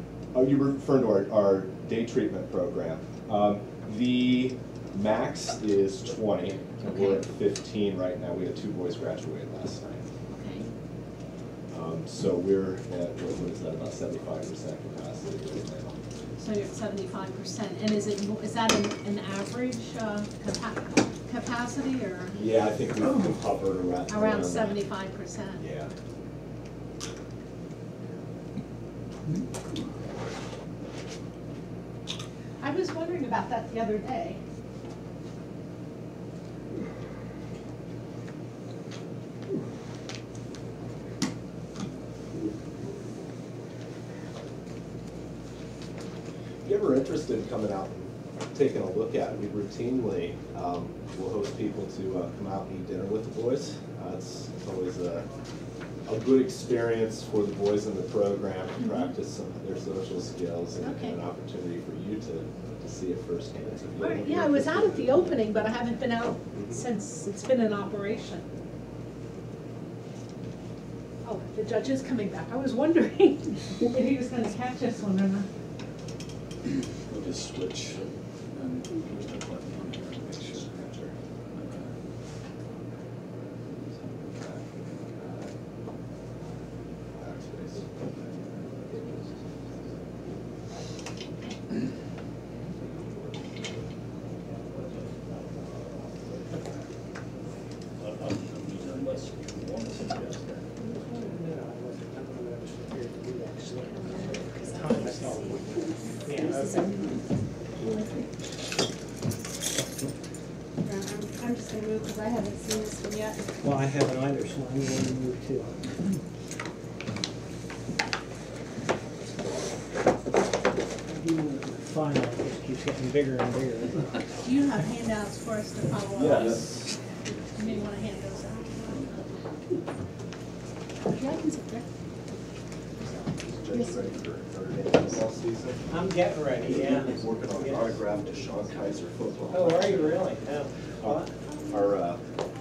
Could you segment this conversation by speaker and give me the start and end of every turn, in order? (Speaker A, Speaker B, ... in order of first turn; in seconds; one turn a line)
Speaker A: 0.3-10.0
Speaker B: 6.8-7.3
Speaker B: 10.3-10.7
Speaker A: 11.7-15.9
Speaker B: 16.4-22.4
Speaker A: 22.3-24.8
Speaker B: 24.1-25.6
Speaker A: 25.6-25.9
Speaker B: 32.6-34.4
Speaker A: 46.6-55.3
Speaker A: 56.1-65.4
Speaker B: 58.8-59.1
Speaker B: 60.8-61.2
Speaker B: 64.0-68.5
Speaker B: 71.2-75.5
Speaker C: 77.1-78.0
Speaker C: 78.6-80.7
Speaker A: 80.3-81.1
Speaker C: 81.5-81.9
Speaker A: 85.2-85.5
Speaker A: 87.1-89.5
Speaker A: 96.4-96.7
Speaker C: 98.0-100.6
Speaker D: 101.1-105.6
Speaker B: 104.2-107.1
Speaker D: 106.2-107.1
Speaker E: 110.9-111.8
Speaker E: 112.4-113.4
Speaker D: 113.6-115.7
Speaker D: 121.2-124.1
Speaker B: 124.4-126.7
Speaker A: 126.1-126.9
Speaker B: 127.5-129.4
Speaker B: 131.1-131.9
Speaker B: 133.0-133.9
Speaker A: 133.4-135.8
Speaker D: 135.9-138.0
Speaker A: 136.6-140.2
Speaker D: 139.5-141.3
Speaker A: 141.0-142.2